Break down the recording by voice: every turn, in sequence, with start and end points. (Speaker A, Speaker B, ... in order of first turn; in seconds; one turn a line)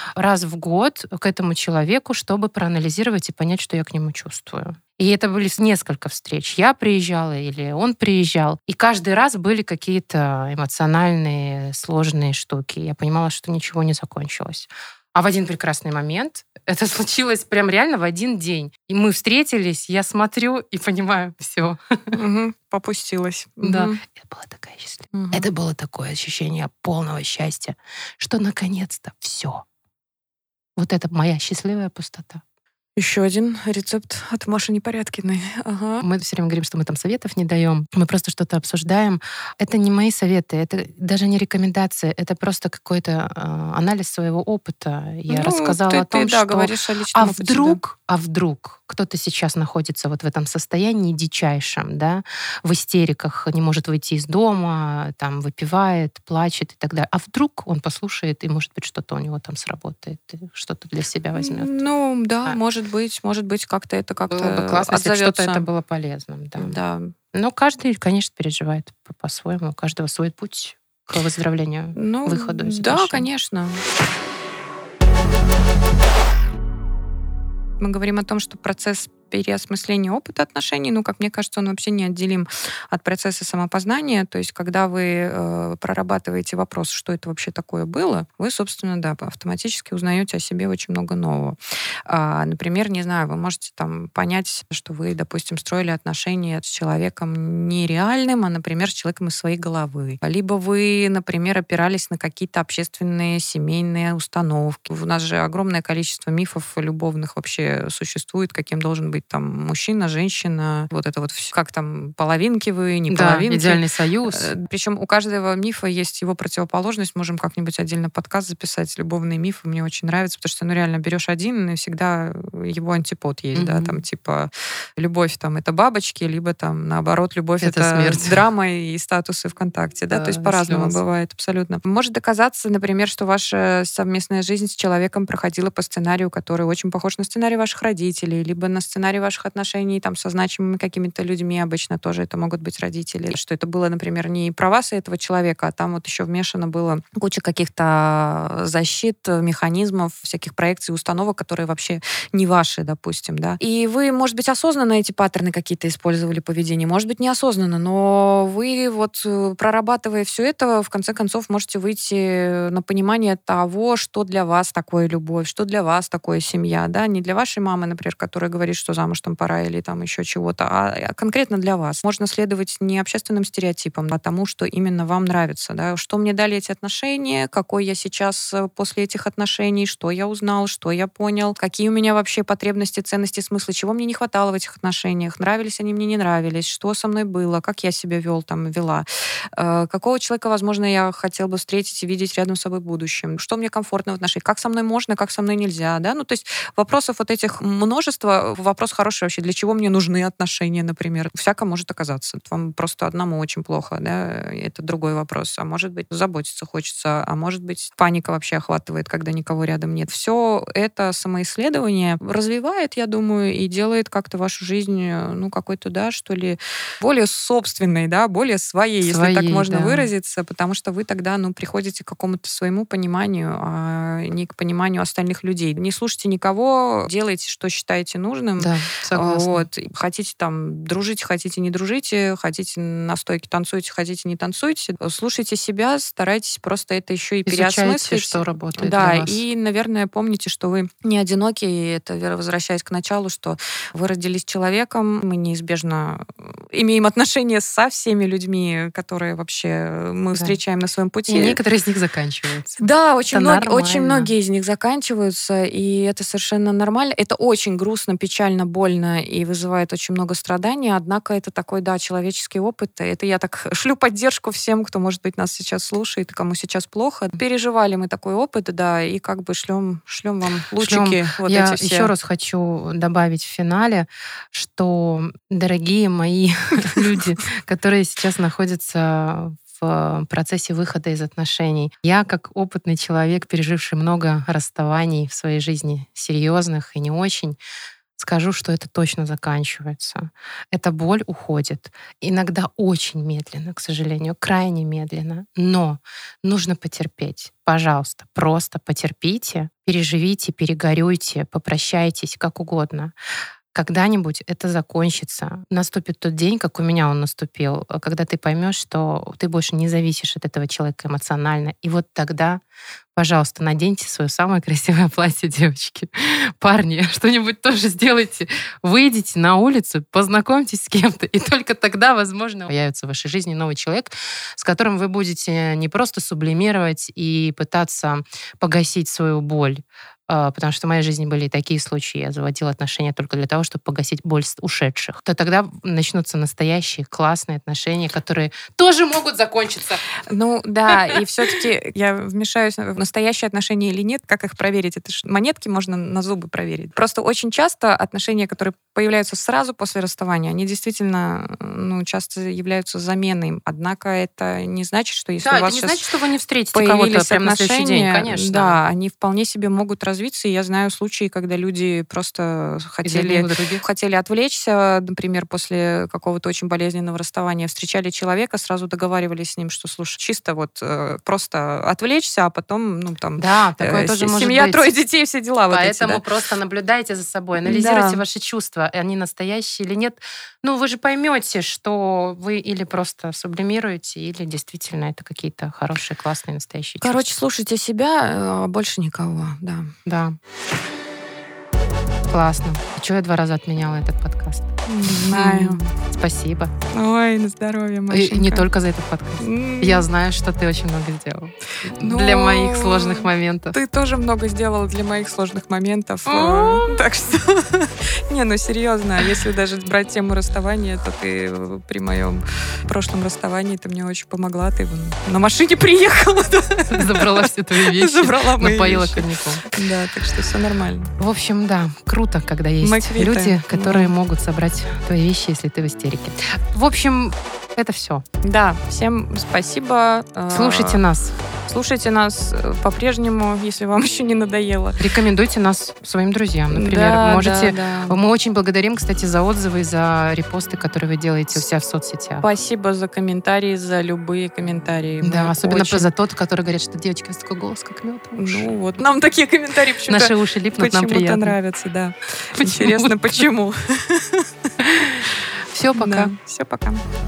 Speaker A: 0.1-22.2
Speaker B: 22.1-24.0
Speaker A: 23.6-29.6
Speaker B: 25.1-25.5
Speaker A: 30.8-32.4
Speaker B: 33.0-36.0
Speaker A: 36.0-61.7
Speaker B: 45.3-47.8
Speaker B: 61.3-65.7
Speaker A: 64.3-66.8
Speaker B: 66.6-67.1
Speaker A: 67.3-73.2
Speaker B: 72.0-73.8
Speaker B: 77.8-251.6
Speaker A: 113.1-114.5
Speaker A: 123.5-124.0
Speaker A: 127.6-128.4
Speaker A: 130.1-131.0
Speaker A: 219.0-220.1
Speaker A: 228.6-229.6
Speaker A: 237.4-239.4
Speaker A: 251.3-254.3
Speaker B: 252.8-272.1
Speaker A: 270.8-287.6
Speaker A: 288.2-303.1
Speaker A: 303.7-312.6
Speaker A: 313.1-340.0
Speaker B: 340.3-356.0
Speaker A: 355.4-358.8
Speaker B: 356.7-376.2
Speaker A: 363.0-363.8
Speaker A: 373.4-374.9
Speaker A: 375.7-387.3
Speaker B: 377.6-378.2
Speaker B: 387.0-389.9
Speaker A: 390.1-390.4
Speaker A: 392.3-396.7
Speaker B: 394.9-395.8
Speaker B: 396.9-398.7
Speaker A: 398.1-403.8
Speaker B: 399.4-400.1
Speaker B: 402.0-421.1
Speaker A: 406.3-407.0
Speaker A: 416.9-419.7
Speaker A: 421.2-428.2
Speaker B: 422.8-424.1
Speaker B: 428.4-431.0
Speaker A: 430.5-431.4
Speaker B: 431.7-435.0
Speaker A: 435.0-442.4
Speaker B: 436.7-438.2
Speaker B: 442.4-446.1
Speaker A: 445.2-448.7
Speaker B: 448.3-454.7
Speaker A: 450.1-451.6
Speaker A: 452.6-453.3
Speaker A: 454.8-456.3
Speaker B: 455.9-457.0